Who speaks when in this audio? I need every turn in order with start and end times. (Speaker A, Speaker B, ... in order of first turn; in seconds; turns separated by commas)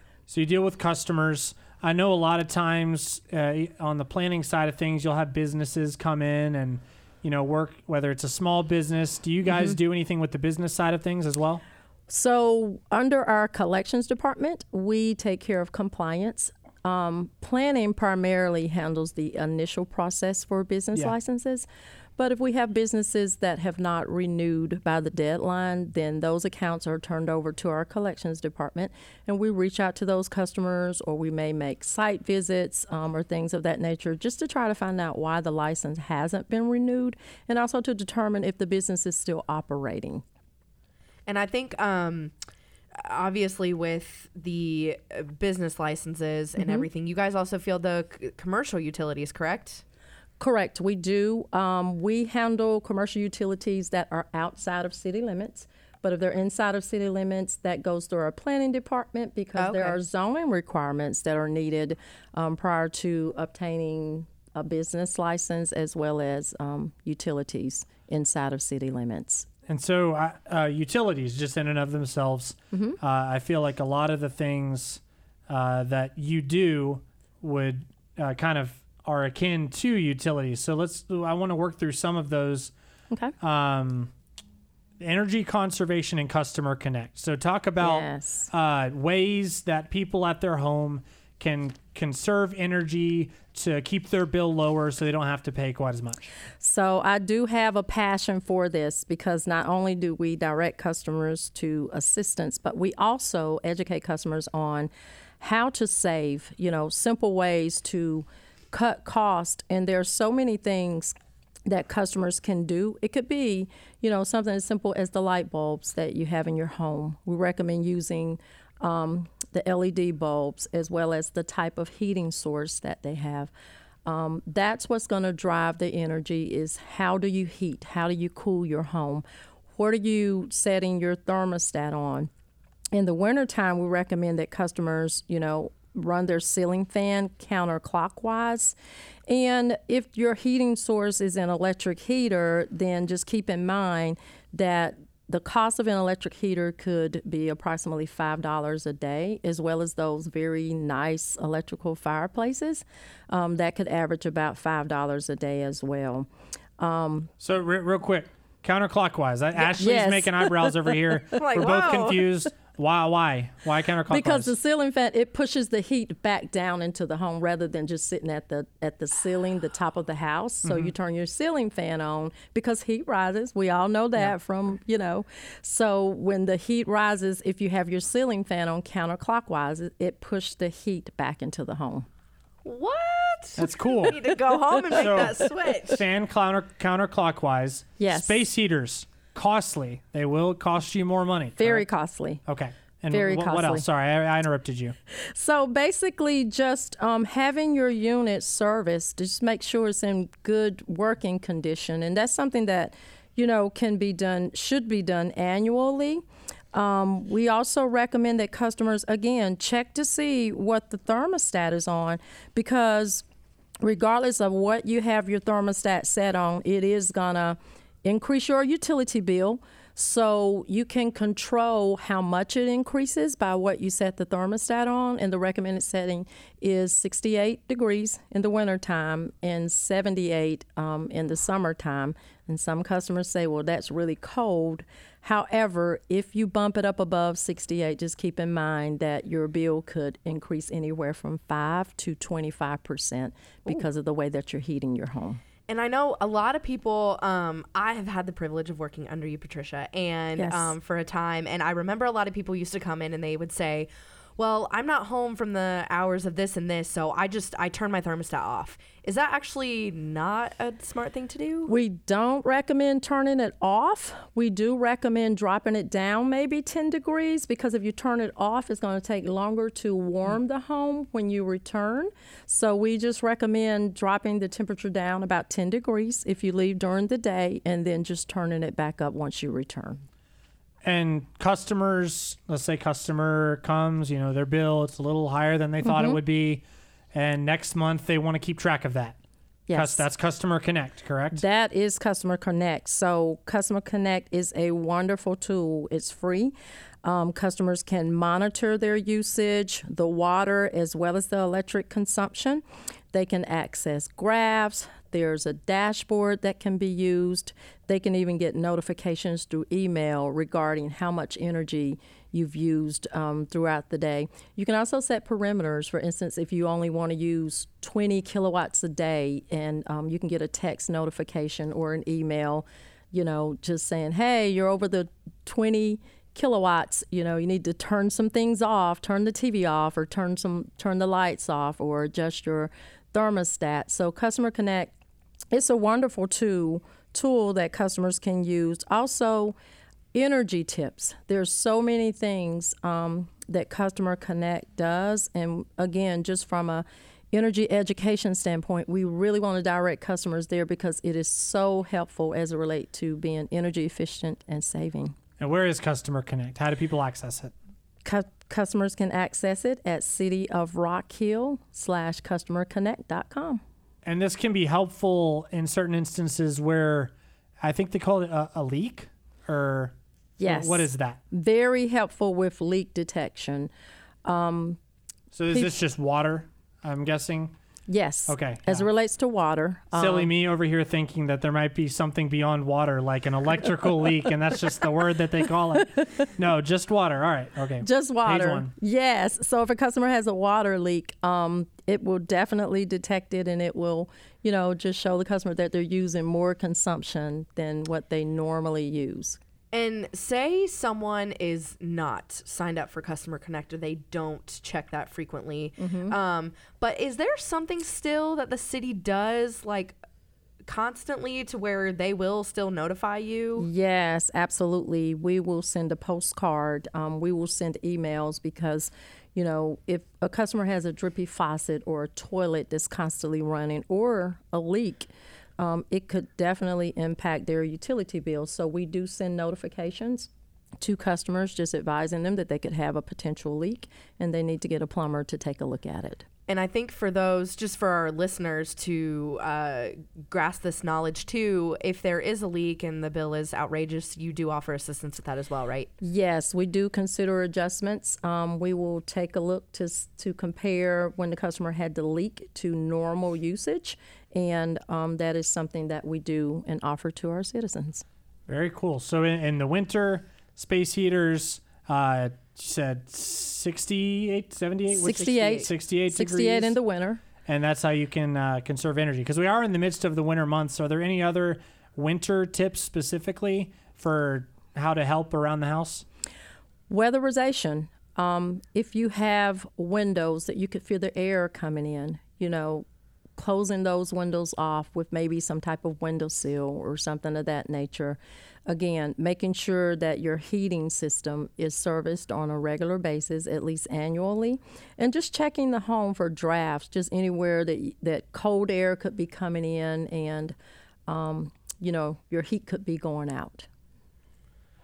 Speaker A: 0.3-11.6, Speaker B: 9.5-9.8, Speaker B: 12.1-40.2, Speaker C: 41.3-42.3, Speaker C: 43.0-49.8, Speaker B: 46.6-46.9, Speaker B: 50.4-69.5, Speaker C: 59.6-60.0, Speaker A: 69.7-82.7, Speaker B: 72.7-73.0, Speaker A: 83.4-84.1, Speaker A: 85.0-96.2, Speaker B: 87.8-88.5, Speaker B: 96.6-104.9, Speaker B: 105.4-111.1, Speaker B: 111.7-123.5, Speaker B: 124.1-129.2, Speaker B: 129.8-132.3, Speaker B: 132.9-138.8, Speaker B: 139.3-157.3, Speaker A: 157.4-164.5, Speaker B: 159.7-160.7, Speaker C: 161.3-162.2, Speaker B: 164.1-182.1, Speaker A: 170.7-170.9, Speaker C: 182.7-186.0, Speaker A: 183.6-184.2, Speaker A: 184.9-191.9, Speaker B: 188.0-188.4, Speaker B: 191.6-192.4, Speaker A: 192.5-195.0, Speaker B: 193.1-193.9, Speaker B: 195.1-213.2, Speaker B: 213.8-245.4, Speaker C: 245.7-261.7, Speaker B: 250.4-250.8, Speaker B: 261.7-280.1, Speaker A: 280.8-289.2, Speaker B: 285.8-286.2, Speaker B: 289.7-290.1, Speaker A: 289.7-291.4, Speaker B: 291.4-296.5, Speaker B: 297.0-334.9, Speaker B: 335.5-339.6, Speaker B: 340.1-355.1, Speaker A: 355.4-357.5, Speaker B: 358.1-363.6, Speaker A: 364.1-371.2, Speaker B: 370.4-373.7, Speaker B: 374.2-374.8, Speaker A: 375.3-377.6, Speaker B: 375.5-375.8, Speaker B: 377.9-380.3, Speaker A: 378.3-378.9, Speaker A: 379.9-388.7, Speaker B: 387.8-399.4, Speaker C: 399.7-410.0, Speaker B: 405.8-406.1, Speaker C: 410.7-413.7, Speaker B: 413.6-436.2, Speaker C: 436.5-445.9, Speaker B: 446.0-458.0, Speaker A: 458.5-466.8, Speaker B: 464.9-467.2, Speaker C: 465.1-465.7, Speaker A: 467.5-476.1, Speaker B: 476.9-482.9, Speaker B: 483.4-500.6, Speaker B: 501.1-503.7